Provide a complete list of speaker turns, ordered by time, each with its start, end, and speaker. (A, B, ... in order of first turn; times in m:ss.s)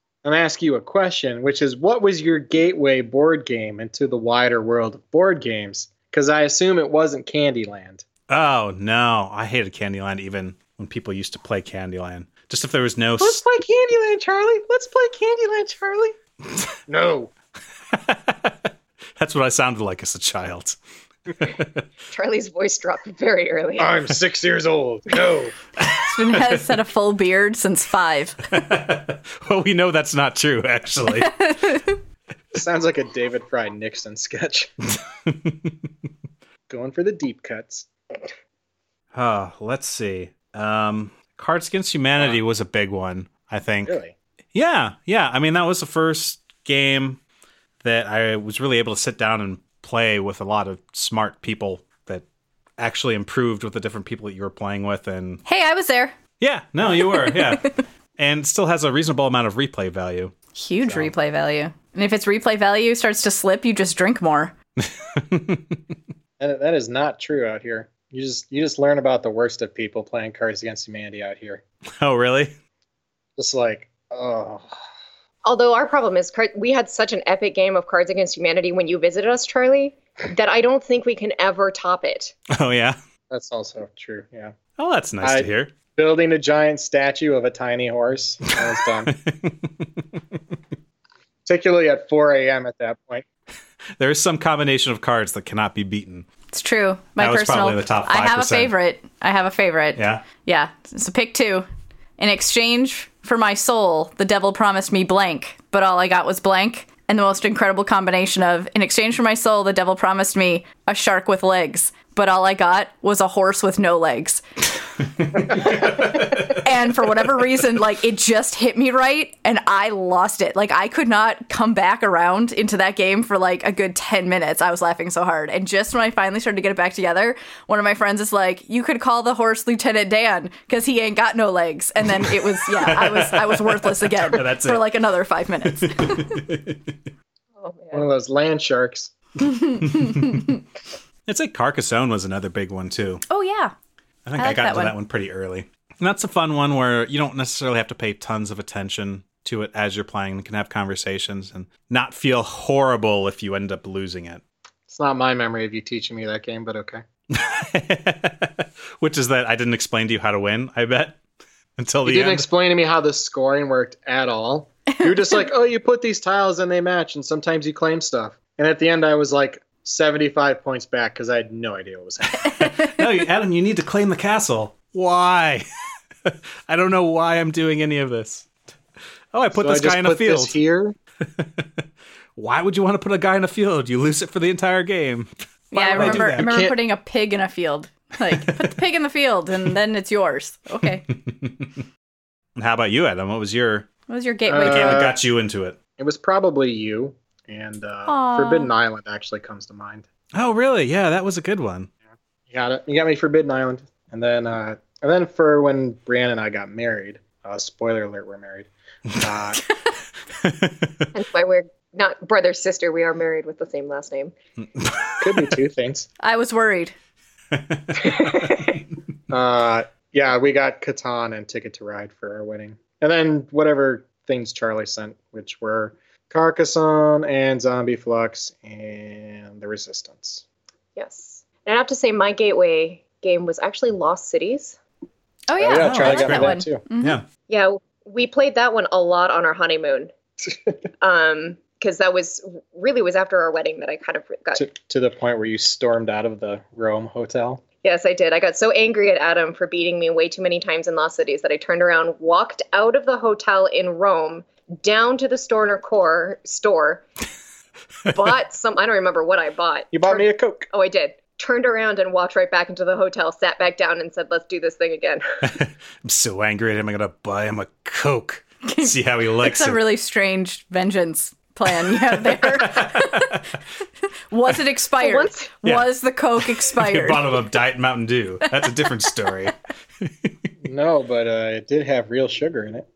0:00.2-0:08.0 A
0:08.3-0:13.4 B
0:13.2-0:16.2 A
0:16.9-0:17.3 A
0:17.9-0:20.8 B
0:21.4-0:21.8 B
0:22.1-0:24.0 C
0:23.8-0:25.6 A
0:25.8-0:26.6 B
0:26.0-0:28.5 D
0:28.5-0:31.4 B
0:31.2-0:32.0 D
0:32.5-0:34.7 A
0:35.2-0:35.8 B
0:36.7-0:37.9 A
0:39.1-0:44.0 B
0:43.9-0:44.1 A
0:44.5-0:47.2 B
0:47.8-0:52.2 B
0:52.8-0:55.4 B
0:55.4-0:56.2 D
0:56.4-1:00.3 B
0:57.1-0:57.6 D
1:00.5-1:04.5 D
1:04.8-1:05.8 B
1:06.4-1:11.6 A
1:12.0-1:12.6 B
1:13.4-1:14.7 A
1:15.4-1:22.4 C
1:22.5-1:23.0 B
1:23.3-1:24.5 A
1:24.8-1:25.7 B
1:25.2-1:29.1 A
1:29.1-1:30.0 B
1:31.5-1:33.3 A
1:34.0-1:36.3 B
1:36.5-1:41.7 D
1:37.2-1:38.7 B
1:40.0-1:40.2 B
1:42.2-1:54.4 D
1:55.4-1:56.6 B
1:55.4-2:16.4 D
2:12.2-2:14.9 B
2:15.6-2:17.0 B
2:17.6-2:18.1 C
2:17.9-2:19.1 A
2:19.5-2:20.5 D
2:19.8-2:20.6 B
2:21.3-2:23.2 B
2:23.3-2:23.7 D
2:24.3-2:34.4 B
2:24.4-2:25.0 D
2:34.9-2:37.0 A
2:37.3-2:41.2 B
2:41.8-2:42.5 B
2:42.0-2:52.7 A
2:52.4-2:55.6 B
2:56.2-2:58.5 B
2:59.3-3:00.6 B
2:59.6-3:01.0 A
3:01.2-3:01.8 B
3:02.4-3:05.3 B
3:05.7-3:11.1 D
3:05.8-3:06.8 A
3:05.9-3:06.6 B
3:08.3-3:08.6 B
3:11.1-3:11.8 B
3:12.6-3:13.9 B
3:14.1-3:15.1 D
3:14.5-3:15.2 A
3:14.6-3:15.8 B
3:16.0-3:20.1 A
3:18.1-3:18.7 D
3:20.3-3:21.9 B
3:22.5-3:29.7 A
3:30.4-3:31.1 B
3:31.1-3:34.4 C
3:34.8-3:35.5 B
3:35.2-3:36.1 A
3:36.2-3:36.9 D
3:37.5-3:38.3 B
3:38.1-3:38.8 C
3:39.3-3:50.4 A
3:51.0-3:54.8 C
3:55.5-3:57.2 D
3:55.6-3:56.8 A
3:55.7-3:57.2 B
3:57.5-4:00.1 C
4:01.0-4:04.6 C
4:04.6-4:07.6 A
4:07.8-4:17.0 C
4:18.1-4:25.2 C
4:19.9-4:20.7 A
4:25.4-4:29.8 B
4:28.6-4:33.4 D
4:31.9-4:33.4 B
4:34.3-4:37.3 D
4:35.0-4:35.5 C
4:35.6-4:40.4 B
4:40.6-4:42.9 A